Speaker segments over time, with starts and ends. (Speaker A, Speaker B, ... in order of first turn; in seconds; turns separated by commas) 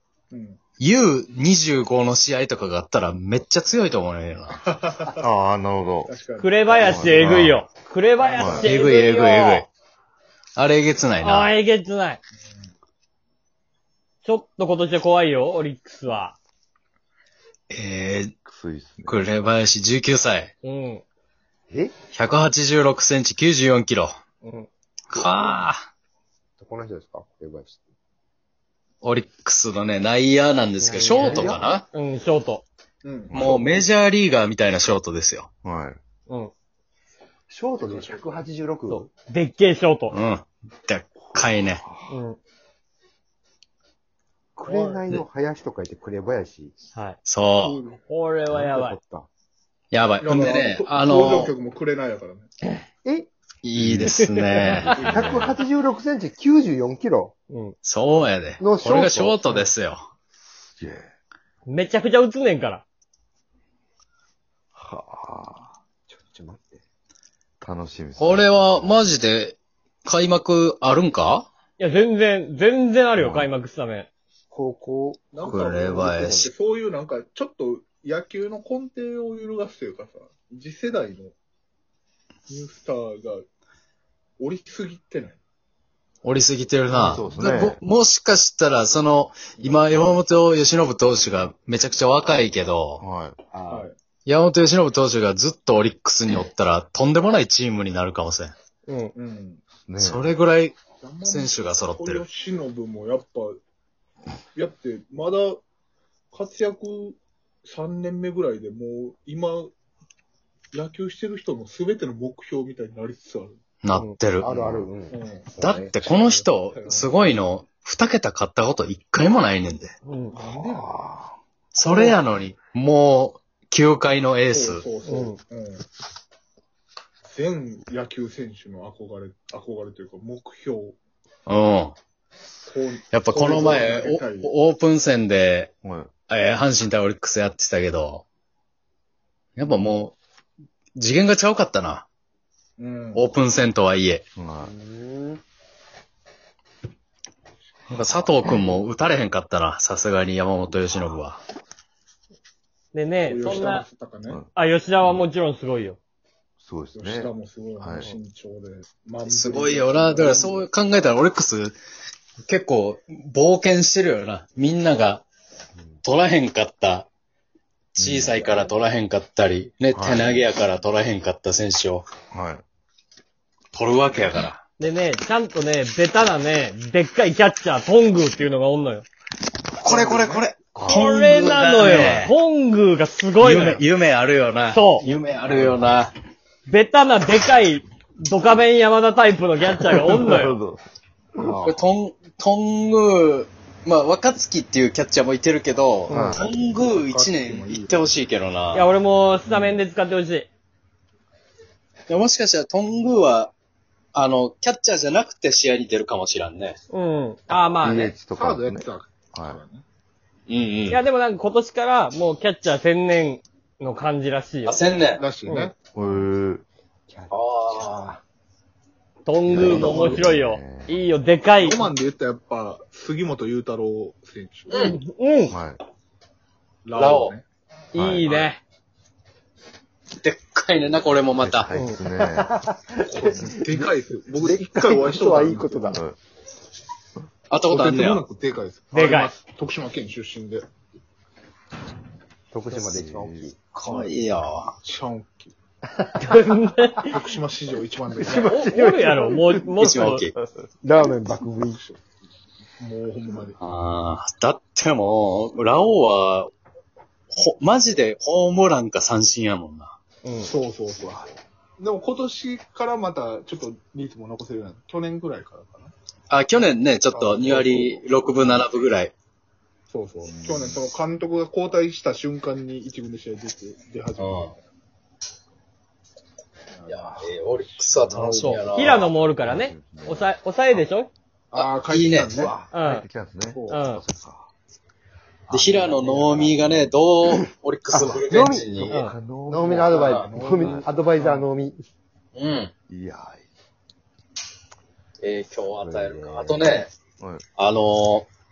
Speaker A: 0.3-0.6, Speaker B: 0.8-4.6, Speaker A: 4.6-5.2, Speaker C: 5.2-6.1, Speaker A: 6.0-7.4, Speaker D: 6.4-9.7, Speaker C: 6.8-7.7, Speaker A: 8.2-8.7, Speaker C: 8.4-8.7, Speaker B: 8.6-9.7, Speaker B: 10.6-11.5, Speaker D: 11.2-12.2, Speaker D: 14.2-16.4, Speaker B: 17.7-18.3, Speaker C: 18.4-19.2, Speaker B: 19.0-20.5, Speaker D: 20.6-21.0, Speaker E: 21.7-21.9, Speaker B: 22.1-24.1, Speaker D: 24.4-24.7, Speaker B: 25.1-25.8, Speaker E: 25.1-25.6, Speaker E: 26.6-27.9, Speaker B: 29.0-31.8, Speaker D: 30.8-32.6, Speaker E: 31.2-31.7, Speaker A: 33.0-33.5, Speaker B: 33.3-35.5, Speaker C: 35.6-36.0, Speaker E: 37.5-39.0, Speaker A: 37.8-38.3, Speaker D: 38.9-40.1, Speaker B: 40.1-41.8, Speaker C: 41.3-42.2, Speaker D: 42.1-42.4, Speaker E: 44.5-46.7, Speaker D: 44.6-45.0, Speaker B: 47.2-47.8, Speaker A: 47.6-48.0, Speaker D: 48.1-49.0, Speaker E: 48.5-49.3, Speaker B: 49.9-51.5, Speaker A: 50.2-52.5, Speaker E: 53.0-53.3, Speaker B: 53.6-55.0, Speaker C: 53.8-54.1, Speaker D: 54.1-54.9, Speaker A: 54.9-55.6, Speaker E: 55.0-57.3, Speaker C: 55.0-55.6, Speaker D: 57.5-57.8, Speaker B: 57.8-60.0, Speaker E: 58.6-59.7, Speaker C: 60.8-61.1, Speaker D: 61.6-62.8, Speaker C: 64.7-65.7, Speaker E: 66.1-66.8, Speaker C: 67.6-69.0, Speaker B: 68.2-71.5, Speaker D: 71.8-74.1, Speaker C: 73.2-73.5, Speaker E: 74.5-76.5, Speaker A: 75.3-81.3, Speaker B: 75.4-76.5, Speaker A: 82.5-83.5, Speaker A: 84.4-85.4, Speaker B: 86.2-93.0, Speaker C: 86.9-87.8, Speaker A: 89.6-90.0, Speaker C: 93.0-93.4, Speaker E: 93.5-93.9, Speaker A: 93.7-93.9, Speaker B: 94.2-98.5, Speaker D: 98.9-99.1, Speaker A: 99.1-99.6, Speaker C: 99.7-100.2, Speaker B: 100.0-102.2, Speaker A: 101.0-103.6, Speaker A: 104.5-105.6, Speaker A: 106.3-109.7, Speaker A: 110.7-113.6, Speaker B: 113.8-114.5, Speaker E: 114.4-115.9, Speaker C: 114.4-114.9, Speaker A: 115.1-117.4, Speaker B: 115.6-119.9, Speaker D: 120.0-120.3, Speaker A: 120.3-121.0, Speaker C: 120.3-121.3, Speaker B: 121.7-124.9, Speaker A: 121.8-122.2, Speaker A: 124.5-125.8, Speaker D: 125.0-125.4, Speaker A: 127.2-130.9, Speaker B: 131.4-131.9, Speaker A: 132.6-134.5, Speaker B: 133.1-135.7, Speaker C: 135.8-136.1, Speaker B: 136.3-138.2, Speaker B: 139.6-140.2, Speaker B: 140.9-142.1, Speaker A: 142.8-143.3, Speaker B: 143.1-144.2, Speaker C: 144.3-144.7, Speaker E: 144.6-145.4, Speaker B: 147.9-151.4, Speaker D: 152.9-153.8, Speaker A: 153.2-154.4, Speaker D: 154.5-156.0, Speaker C: 155.0-155.3, Speaker C: 156.6-158.1, Speaker A: 156.9-160.7, Speaker B: 159.2-161.8, Speaker B: 162.5-165.2, Speaker B: 166.0-167.1, Speaker C: 168.0-168.5, Speaker B: 168.0-172.1, Speaker C: 169.9-170.4, Speaker C: 172.3-172.6, Speaker B: 173.7-174.6, Speaker D: 174.8-179.1, Speaker B: 179.8-182.3, Speaker C: 180.8-181.3, Speaker D: 180.8-183.8, Speaker B: 183.4-186.1, Speaker D: 184.7-185.1, Speaker D: 186.7-190.6, Speaker C: 190.1-190.8, Speaker C: 191.4-191.8, Speaker B: 191.6-198.9, Speaker A: 196.1-198.1, Speaker E: 196.1-196.4, Speaker C: 196.1-196.5, Speaker D: 198.7-200.5, Speaker C: 199.4-199.8, Speaker B: 202.1-203.5, Speaker B: 204.1-206.8, Speaker D: 206.9-208.1, Speaker C: 207.8-209.6, Speaker A: 208.3-209.8, Speaker B: 210.5-211.0, Speaker D: 210.9-214.8, Speaker B: 214.7-215.2, Speaker A: 215.1-215.8, Speaker D: 215.5-215.7, Speaker C: 215.9-216.6, Speaker E: 217.1-218.2, Speaker B: 217.3-218.1, Speaker D: 219.2-221.8, Speaker C: 219.4-221.0, Speaker A: 219.6-220.2, Speaker A: 221.6-224.9, Speaker B: 224.7-225.0, Speaker D: 224.7-225.6, Speaker C: 225.5-225.8, Speaker A: 226.8-227.4, Speaker B: 226.9-227.3, Speaker D: 227.9-228.6, Speaker B: 227.9-228.2, Speaker A: 228.2-228.5, Speaker B: 230.2-231.7, Speaker C: 231.3-232.6, Speaker D: 231.7-232.0, Speaker E: 232.2-236.0, Speaker A: 233.1-236.0, Speaker B: 237.5-238.2, Speaker A: 237.7-240.6, Speaker D: 238.9-239.3, Speaker E: 242.5-243.6, Speaker C: 242.8-243.5, Speaker B: 243.7-244.7, Speaker A: 243.8-244.2, Speaker A: 244.8-245.5, Speaker E: 246.0-246.9, Speaker D: 246.2-247.1, Speaker A: 247.0-248.6, Speaker E: 248.2-249.5, Speaker D: 248.2-250.2, Speaker C: 249.4-250.6, Speaker B: 249.8-250.3, Speaker E: 250.8-251.9, Speaker A: 251.7-252.0, Speaker A: 252.8-253.6, Speaker B: 253.6-256.5, Speaker B: 257.3-259.9, Speaker A: 260.4-265.9, Speaker B: 266.3-269.1, Speaker A: 267.1-268.1, Speaker A: 269.9-274.6, Speaker C: 270.2-270.9, Speaker B: 274.2-274.5, Speaker A: 276.7-278.7, Speaker B: 276.9-279.1, Speaker D: 278.3-281.1, Speaker C: 278.8-280.8, Speaker A: 281.5-282.6, Speaker B: 281.5-282.4, Speaker C: 282.3-284.5, Speaker D: 282.7-283.1, Speaker A: 283.5-283.8, Speaker D: 283.7-284.0, Speaker B: 285.5-289.0, Speaker E: 285.8-286.3, Speaker A: 285.8-286.4, Speaker E: 287.9-288.9, Speaker C: 288.8-290.9, Speaker D: 288.8-289.1, Speaker E: 289.5-291.8, Speaker A: 289.6-291.5, Speaker B: 292.3-292.7, Speaker C: 292.9-293.4, Speaker B: 295.2-296.9, Speaker E: 295.8-296.9, Speaker C: 297.2-297.4, Speaker B: 297.6-298.3